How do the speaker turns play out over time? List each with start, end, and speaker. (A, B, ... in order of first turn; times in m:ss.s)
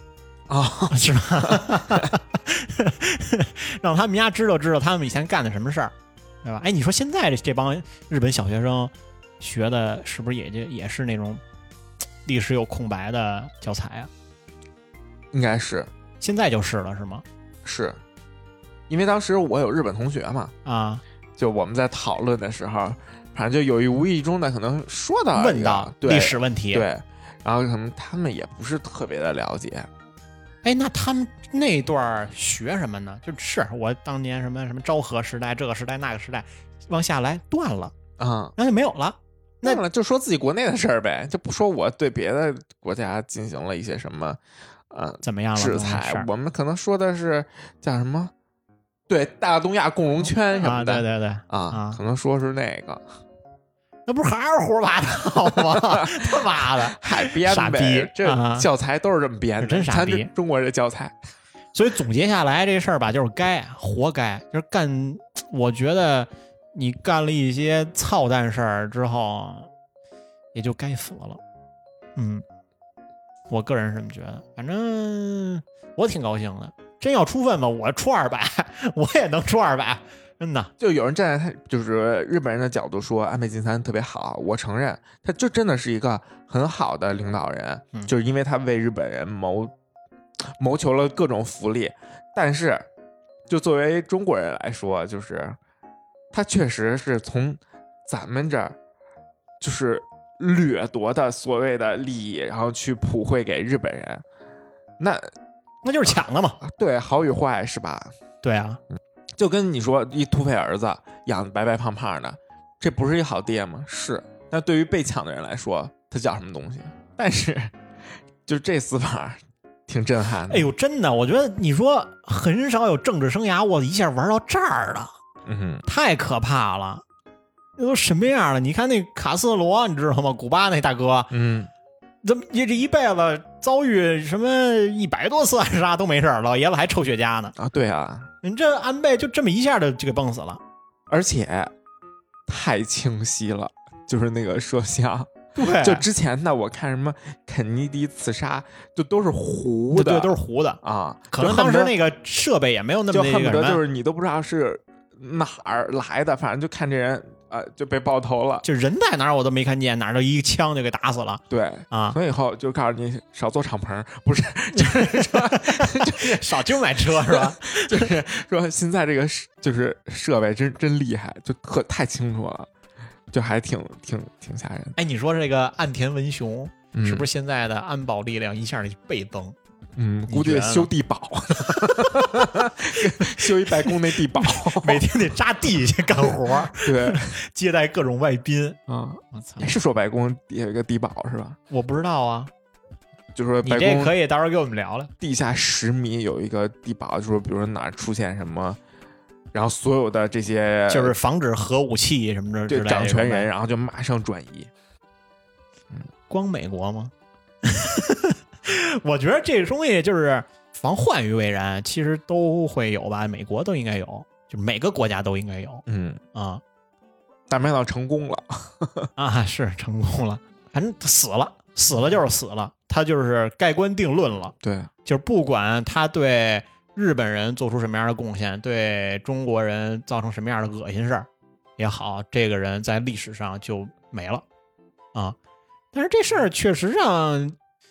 0:00.5-0:02.1 A
0:00.9-0:11.4 B
0:12.2-0:14.1 B
0:15.3-0:15.9 A
0:16.2-0:17.2 B
0:17.6-0:18.0 A
0:18.9-0:20.5 A
0:20.6-0:21.0 B
0:21.4-0:29.9 A
0:25.3-0:26.8 B
0:30.6-0:37.9 B
0:38.2-0:38.5 A
0:38.6-0:39.8 B
0:39.6-0:48.3 A
0:45.2-0:46.3 B
0:49.1-0:53.1 A
0:50.6-0:52.0 B
0:54.1-0:58.7 B
0:55.5-1:01.2 A
0:59.6-1:00.3 B
1:01.7-1:09.7 B
1:10.5-1:11.4 B
1:12.2-1:12.4 B
1:13.5-1:20.7 B
1:20.8-1:29.7 A
1:30.4-1:32.9 A
1:33.5-1:35.6 A
1:36.3-1:38.8 A
1:39.6-1:44.2 A
1:45.0-1:45.3 A
1:45.8-1:46.6 B
1:46.6-1:48.1 A
1:48.4-1:48.8 B
1:49.4-1:57.7 A
1:58.4-2:00.7 A
2:00.5-2:05.1 B
2:05.4-2:05.8 A
2:05.8-2:07.0 B
2:07.8-2:11.3 B
2:11.3-2:11.7 A
2:12.2-2:17.6 B
2:17.6-2:18.3 A
2:18.4-2:20.6 B
2:21.1-2:21.7 A
2:22.5-2:31.9 A
2:25.6-2:26.0 B
2:29.9-2:33.8 B
2:33.1-2:38.6 A
2:38.6-2:42.2 B
2:41.5-2:52.7 A
2:44.7-2:48.1 B
2:53.3-2:54.9 A
2:55.0-2:59.6 B
2:56.9-2:57.3 A
3:00.0-3:05.0 A
3:00.3-3:00.9 B
3:03.2-3:08.8 B
3:06.3-3:07.3 A
3:08.9-3:11.6 A
3:09.3-3:09.7 B
3:11.7-3:12.5 B
3:13.3-3:14.1 A
3:13.6-3:15.1 B
3:15.2-3:18.8 A
3:19.5-3:21.2 A
3:20.9-3:23.5 B
3:22.7-3:24.7 A
3:26.3-3:27.1 B
3:27.6-3:36.6 B
3:35.9-3:36.2 A
3:37.5-3:39.1 A
3:39.2-3:44.5 B
3:44.6-3:44.9 A
3:45.0-3:54.4 B
3:55.9-3:57.6 B